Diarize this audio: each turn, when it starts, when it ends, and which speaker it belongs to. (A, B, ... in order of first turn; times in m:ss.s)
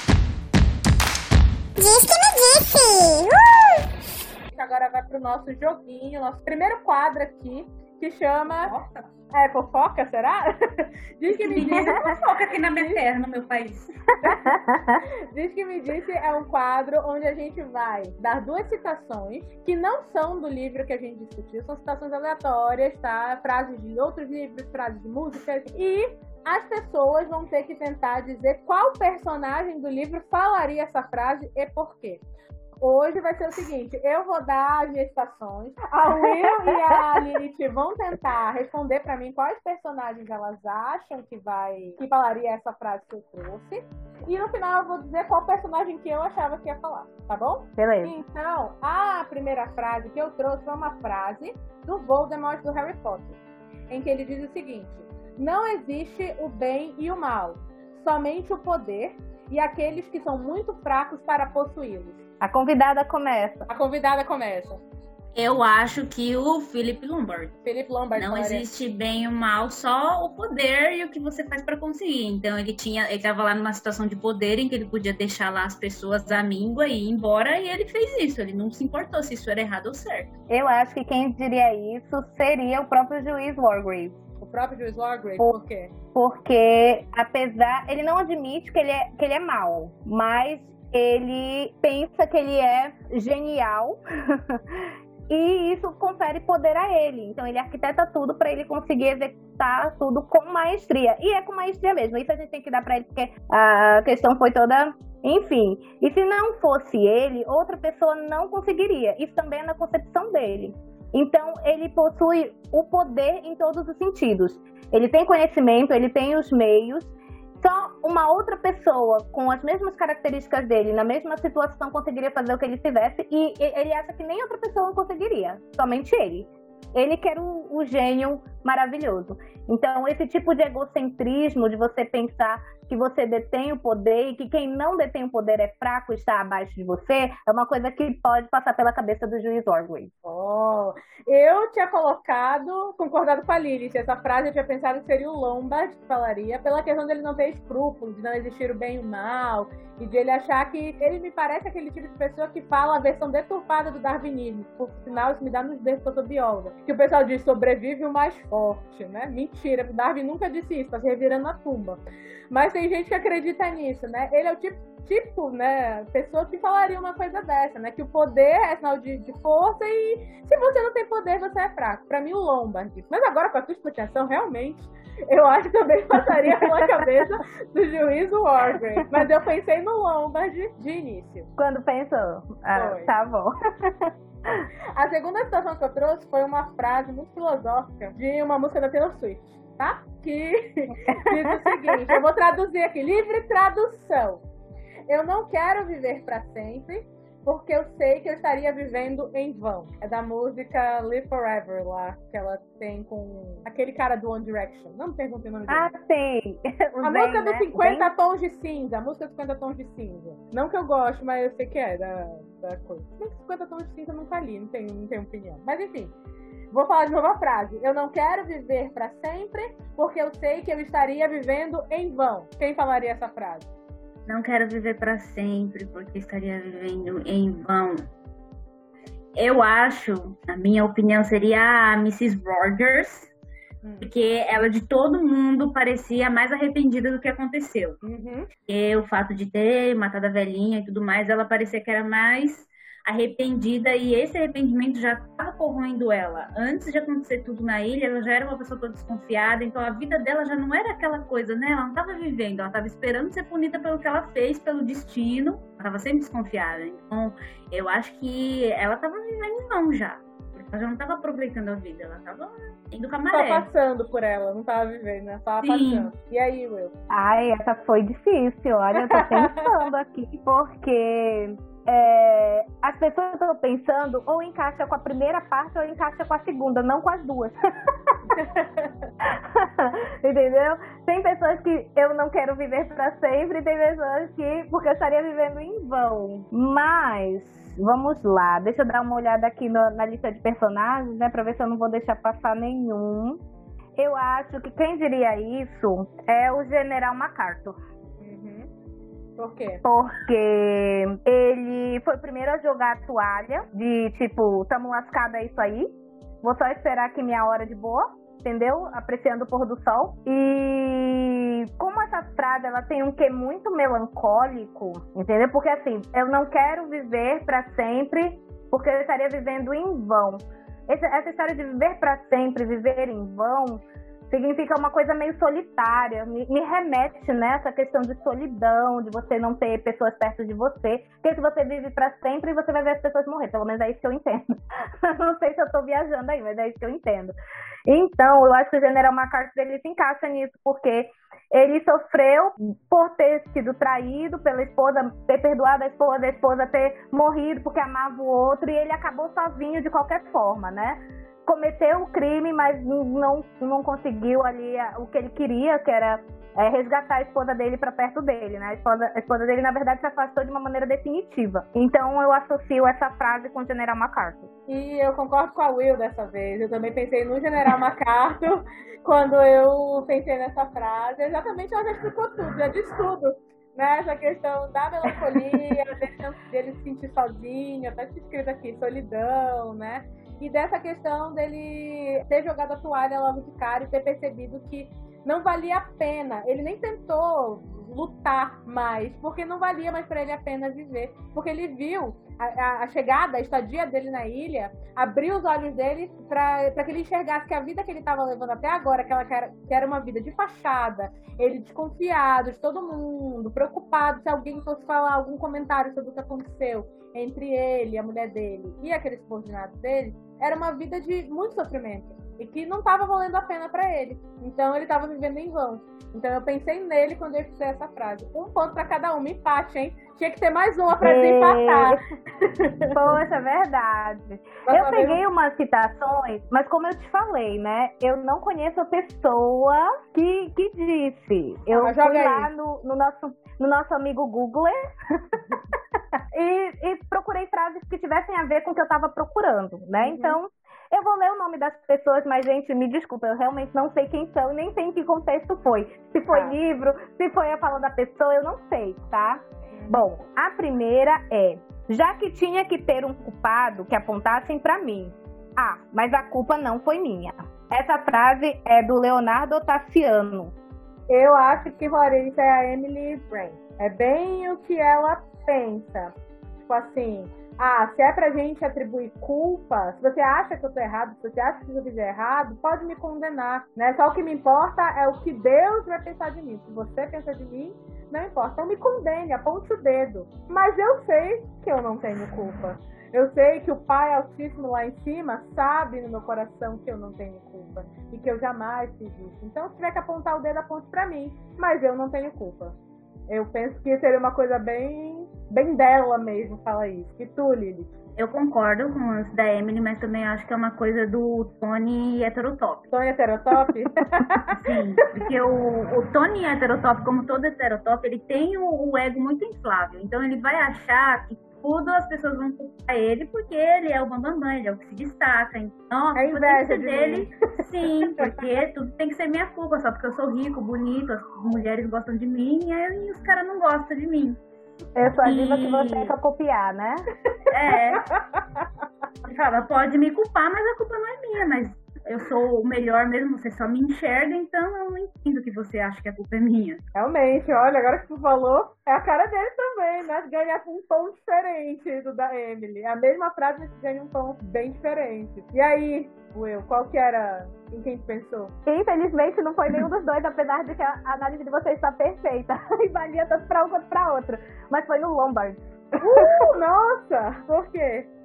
0:04.5-0:08.7 A
0:08.6-0:09.0 B
0:09.3-0:12.2 A
0:11.3-0:13.9 B
0:11.7-0:12.0 C
0:12.7-0:13.0 A
0:14.2-0:14.6 A
0:14.2-0:15.0 C
0:15.3-0:32.2 A
0:32.8-0:53.4 A
0:36.1-0:37.2 C
0:47.8-0:48.2 C
0:53.9-1:02.2 A
1:02.4-1:03.7 C
1:03.7-1:04.8 A
1:05.3-1:07.6 B
1:07.6-1:08.6 A
1:08.2-1:20.3 B
1:20.5-1:24.2 C
1:24.4-1:25.9 A
1:26.1-1:34.8 C
1:35.3-2:20.1 C
2:20.2-2:42.0 A
2:42.5-3:01.5 A
3:01.6-3:04.6 C
3:02.7-3:03.1 A
3:04.9-3:14.4 A
3:11.1-3:12.2 C
3:15.1-3:25.9 A
3:25.7-3:28.1 C
3:27.0-3:36.1 A
3:36.7-3:43.7 A
3:44.2-3:48.1 B
3:49.4-3:53.3 B
3:53.8-3:54.1 A
3:54.0-3:58.0 B
3:58.0-3:58.5 A
3:58.7-4:23.7 B
4:23.3-4:26.9 A
4:25.6-4:26.1 B
4:27.1-4:37.9 C
4:29.1-4:29.7 A
4:38.3-4:39.1 A
4:39.2-4:53.4 C
4:54.0-4:57.8 C
4:58.2-4:58.7 A
4:59.4-4:59.8 A
4:59.8-5:37.3 C
5:37.9-6:04.5 C
6:04.7-7:03.2 A
7:01.0-7:02.0 C
7:02.9-7:15.7 C
7:04.6-7:05.2 A
7:11.7-7:12.5 A
7:16.3-7:40.5 C
7:20.0-7:20.4 A
7:26.3-7:26.6 A
7:29.7-7:30.0 A
7:41.1-7:46.1 A
7:46.7-8:12.8 A
8:13.3-8:17.9 A
8:18.2-8:22.9 B
8:22.9-8:24.6 A
8:24.5-8:44.4 B
8:36.2-8:37.3 A
8:45.0-8:47.1 C
8:45.2-8:46.1 B
8:47.5-8:48.1 B
8:49.2-8:56.8 B
8:56.9-9:08.5 A
9:08.6-9:16.5 C
9:16.0-9:18.1 A